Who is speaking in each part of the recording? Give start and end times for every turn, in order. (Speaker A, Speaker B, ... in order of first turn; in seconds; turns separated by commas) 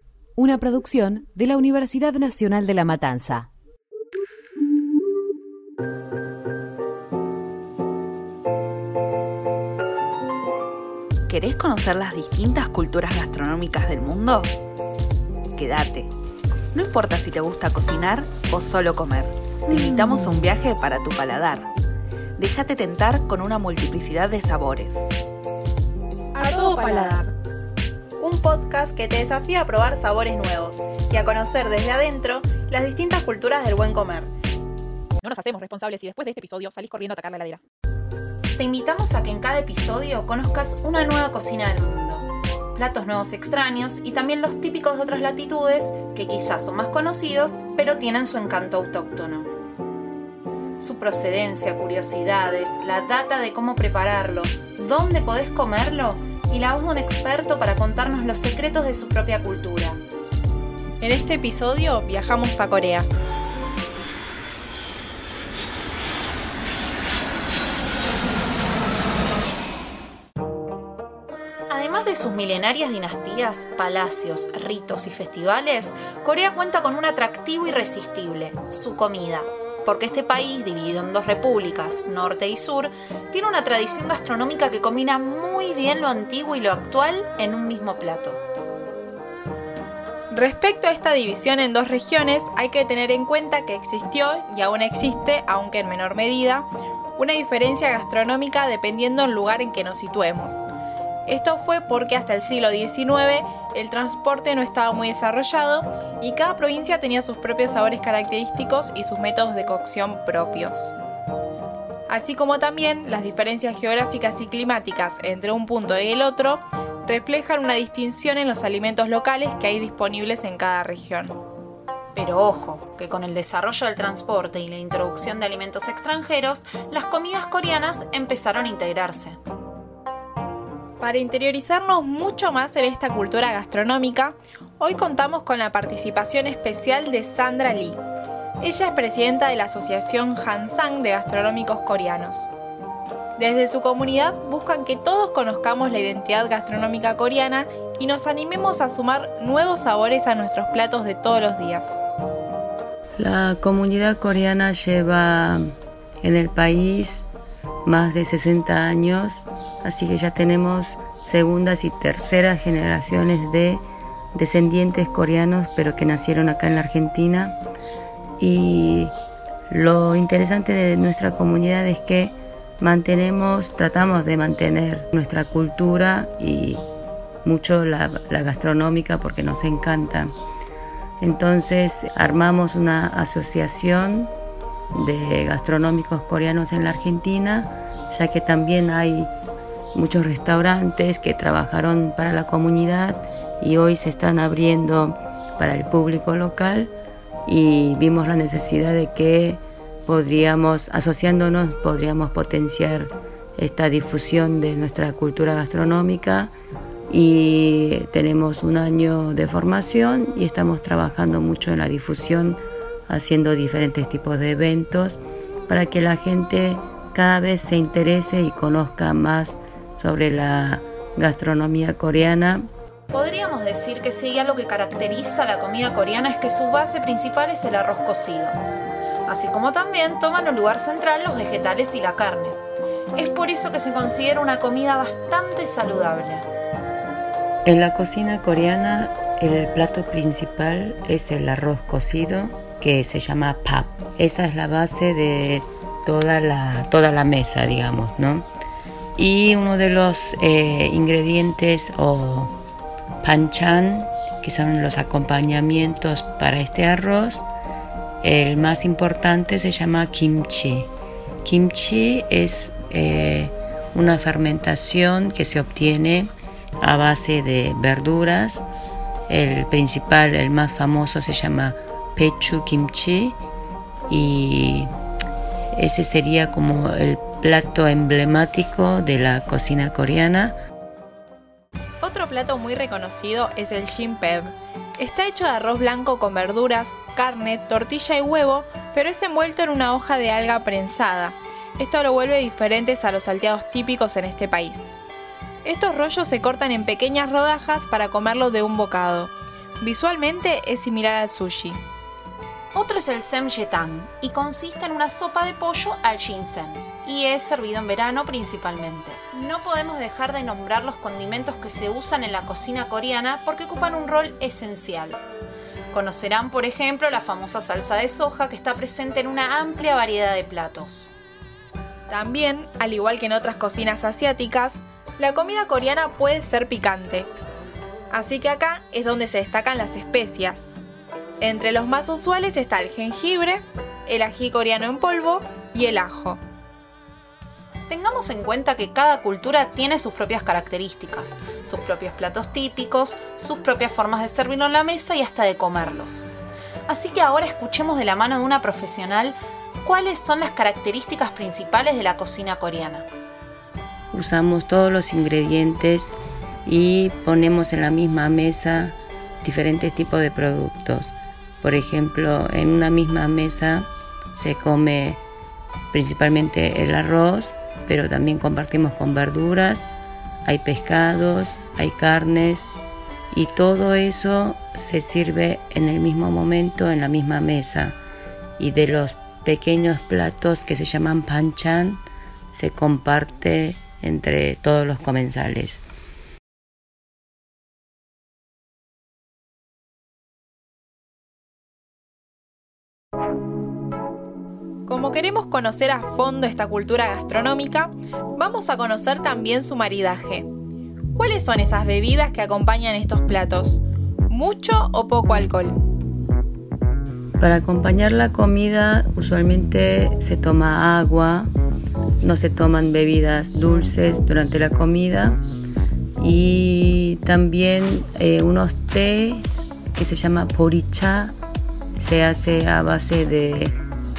Speaker A: 0.4-3.5, Speaker B: 11.3-14.5, Speaker B: 15.6-16.1, Speaker B: 16.7-21.7, Speaker B: 22.4-25.0, Speaker C: 26.3-27.2, Speaker B: 26.5-27.2, Speaker C: 28.2-34.3, Speaker C: 35.2-37.6, Speaker D: 38.6-49.5, Speaker D: 50.8-60.0, Speaker C: 61.0-63.1, Speaker D: 71.7-88.4, Speaker C: 90.3-100.7, Speaker C: 101.3-110.9, Speaker C: 112.1-121.4, Speaker D: 122.1-129.4, Speaker C: 131.0-138.0, Speaker C: 138.6-142.5, Speaker C: 143.4-152.0, Speaker E: 153.2-157.2, Speaker E: 157.8-167.6, Speaker E: 168.4-169.1, Speaker E: 169.7-176.8, Speaker E: 177.4-180.3, Speaker E: 181.2-184.3, Speaker E: 184.9-189.3, Speaker E: 189.9-196.9, Speaker E: 197.4-206.5, Speaker E: 207.1-222.7, Speaker D: 223.1-228.6, Speaker D: 229.2-232.6, Speaker D: 233.1-236.5, Speaker E: 237.7-248.4, Speaker E: 249.2-252.5, Speaker E: 253.2-257.4, Speaker E: 258.2-260.9, Speaker E: 261.4-268.6, Speaker E: 269.3-273.4, Speaker E: 274.1-274.9, Speaker E: 275.7-280.6, Speaker C: 282.0-294.9, Speaker C: 295.6-301.8, Speaker D: 302.7-315.2, Speaker D: 315.9-321.1, Speaker C: 322.1-327.3, Speaker C: 328.1-330.8, Speaker C: 331.4-336.4, Speaker D: 337.9-346.2, Speaker D: 346.9-353.1, Speaker E: 354.1-365.2, Speaker E: 365.9-369.9, Speaker E: 370.4-372.7, Speaker E: 373.3-378.0, Speaker E: 378.6-385.8, Speaker C: 394.9-400.5, Speaker C: 401.1-405.8, Speaker E: 407.4-411.5, Speaker E: 412.2-415.4, Speaker E: 416.2-421.3, Speaker E: 422.0-423.8